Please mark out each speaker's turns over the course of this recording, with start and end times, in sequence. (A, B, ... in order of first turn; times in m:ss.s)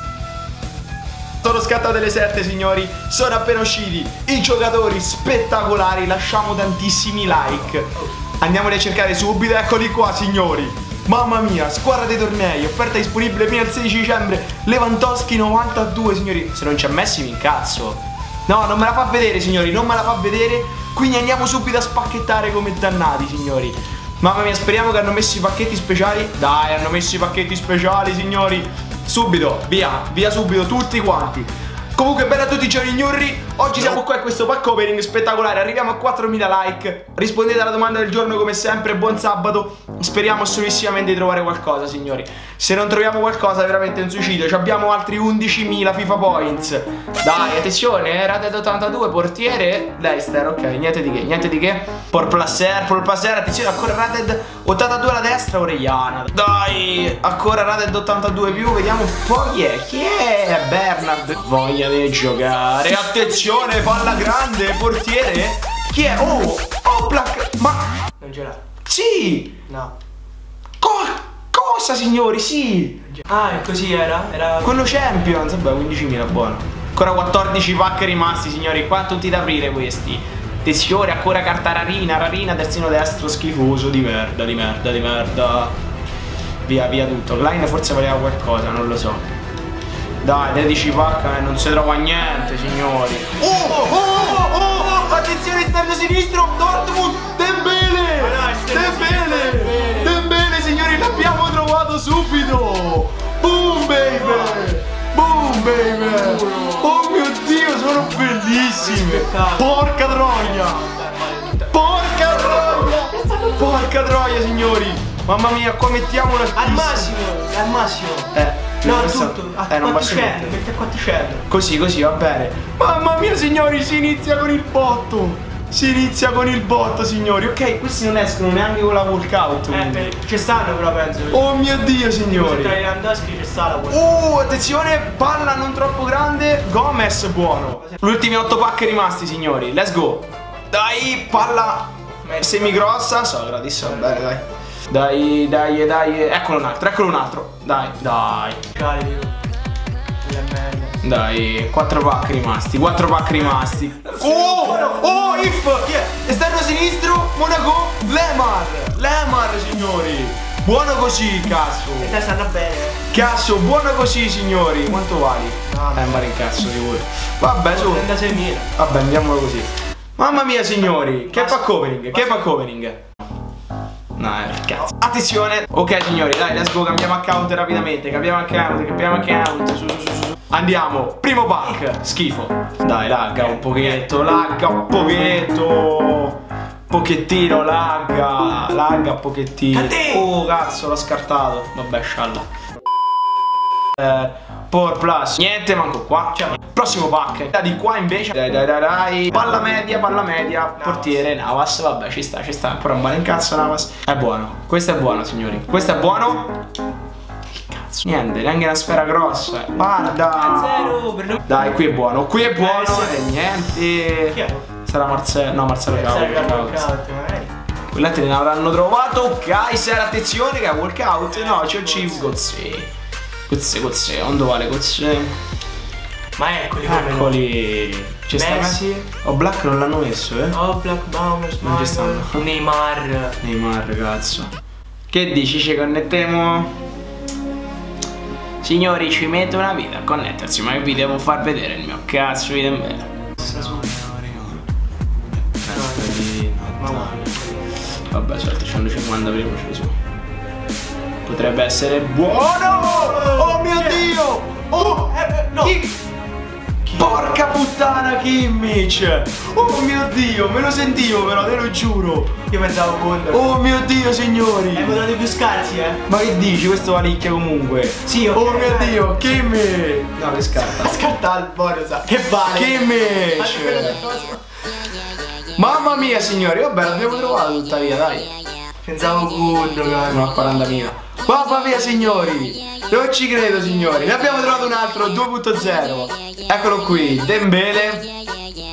0:01.4-1:07.9 A
1:08.2-1:08.6 B
1:08.8-1:09.6 A
1:09.6-1:09.9 B
1:10.8-1:13.0 A
1:13.2-1:15.2 B
1:14.6-1:25.7 A
1:26.6-1:29.2 A
1:30.2-1:50.8 A
1:38.4-1:39.9 B
1:48.6-1:51.7 B
1:51.6-1:57.1 A
1:52.5-1:53.7 B
1:56.5-2:01.4 B
1:58.3-2:00.6 A
2:01.5-2:10.2 A
2:09.7-2:11.4 B
2:11.3-2:12.8 A
2:12.3-2:14.1 B
2:13.9-2:28.6 A
2:22.2-2:22.8 B
2:28.7-2:29.3 B
2:30.2-2:31.0 B
2:31.0-2:42.2 A
2:33.4-2:36.1 B
2:42.0-2:43.0 B
2:43.1-2:48.1 A
2:45.7-2:46.2 B
2:47.7-2:48.7 B
2:48.7-2:53.0 A
2:51.3-2:52.4 B
2:54.2-3:12.4 A
3:09.8-3:10.1 B
3:13.9-3:26.5 A
3:27.6-3:36.8 A
3:30.5-3:31.4 B
3:32.6-3:33.1 B
3:34.3-3:34.7 B
3:35.9-3:37.5 B
3:37.9-3:42.9 A
3:41.4-3:42.3 B
3:43.5-3:45.4 A
3:46.4-3:47.4 B
3:46.8-3:50.6 A
3:48.3-3:49.0 B
3:50.5-3:53.4 B
3:51.6-3:52.4 A
3:53.4-3:54.5 A
3:55.1-3:56.8 A
3:58.6-4:04.6 A
4:05.6-4:07.3 A
4:06.8-4:07.3 B
4:08.0-4:10.0 A
4:11.2-4:16.0 A
4:14.9-4:15.7 B
4:16.9-4:17.3 B
4:16.9-4:22.4 A
4:22.5-4:23.5 B
4:23.3-4:25.1 A
4:24.7-4:26.0 B
4:26.0-4:30.9 A
4:28.0-4:29.3 B
4:30.6-4:34.4 B
4:32.5-4:34.0 A
4:35.6-4:38.3 A
4:38.8-4:40.2 B
4:40.1-4:48.1 A